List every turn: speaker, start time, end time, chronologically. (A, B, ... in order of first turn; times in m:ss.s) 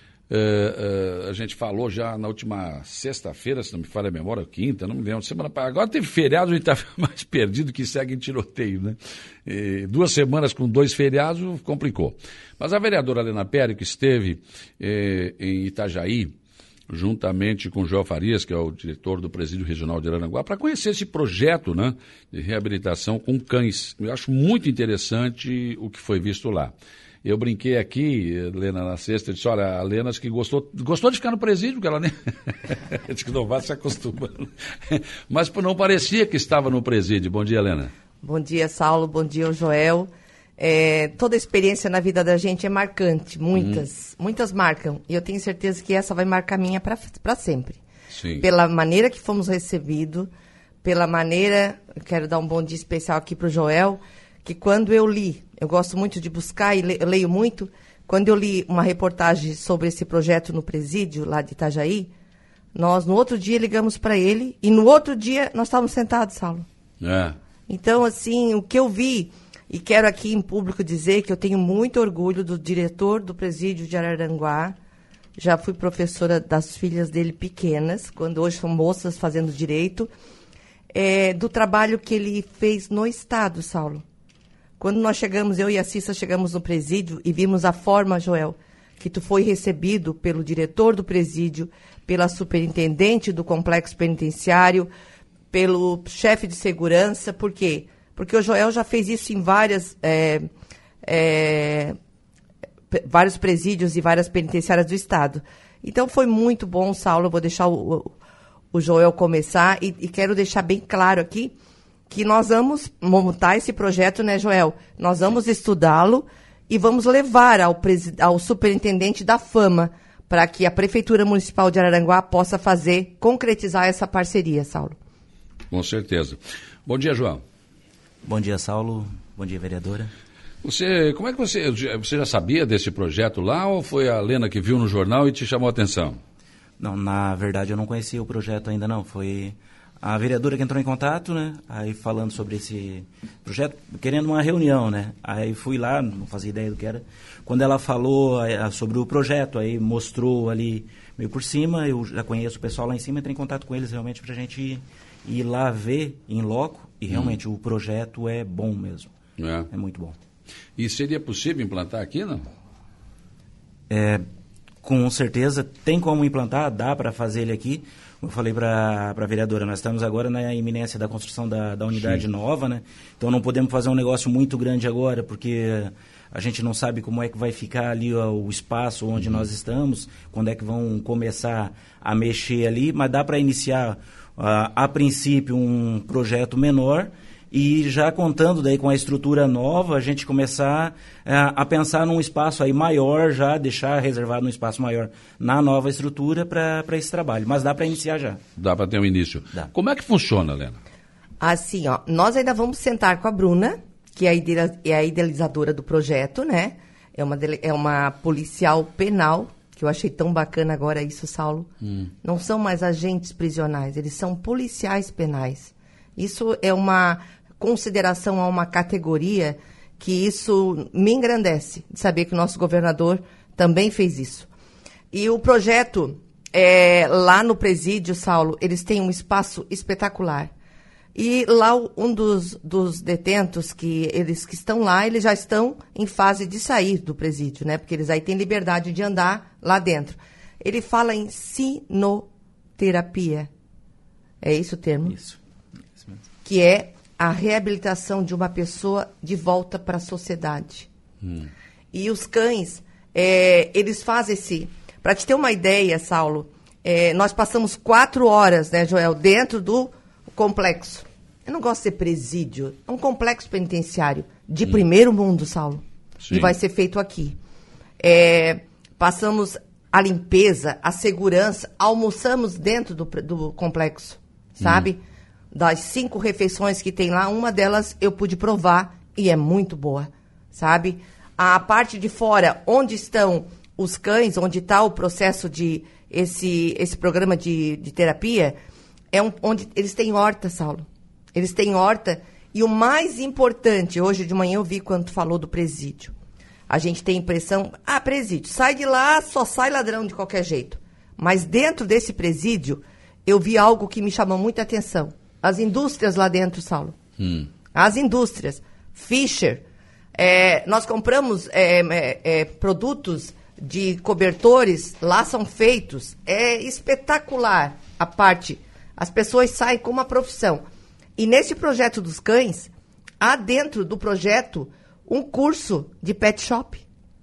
0:00.3-0:16.3 A
0:16.9-0:26.7 A
0:27.2-0:37.9 A
0:38.2-0:47.8 B
0:43.6-0:43.8 A
0:48.1-0:48.4 A
0:48.4-0:50.3 B
0:50.8-1:02.1 B
1:02.7-1:06.6 B
1:07.0-1:07.4 A
1:07.7-1:14.7 B
1:15.4-1:20.1 B
1:20.9-1:24.0 B
1:24.8-1:34.9 B
1:35.5-1:40.5 B
1:41.0-1:42.0 B
1:42.9-1:48.1 B
1:48.7-1:51.5 B
1:52.1-2:05.0 B
2:05.7-2:07.4 A
2:08.2-2:10.1 C
2:10.6-2:16.2 A
2:16.8-2:39.1 C
2:37.1-2:37.4 A
2:39.4-2:39.7 A
2:39.7-2:40.2 C
2:40.8-2:42.4 A
2:43.9-2:44.2 C
2:44.8-3:18.4 C
3:18.6-3:20.8 A
3:21.4-3:31.7 B
3:32.2-3:44.5 B
3:45.1-3:50.5 B
3:51.1-4:03.5 B
4:04.4-4:05.2 B
4:05.1-4:05.4 C
4:05.9-4:06.2 C
4:06.4-4:10.9 B
4:11.9-4:27.4 B
4:26.2-4:26.5 A
4:28.0-4:35.0 B
4:34.6-4:34.9 A
4:35.5-4:48.6 B
4:49.1-4:56.1 B
4:56.7-5:07.0 B
5:07.2-5:07.5 A
5:07.7-5:09.6 B
5:10.1-5:20.6 B
5:21.2-5:22.7 B
5:23.2-5:26.8 B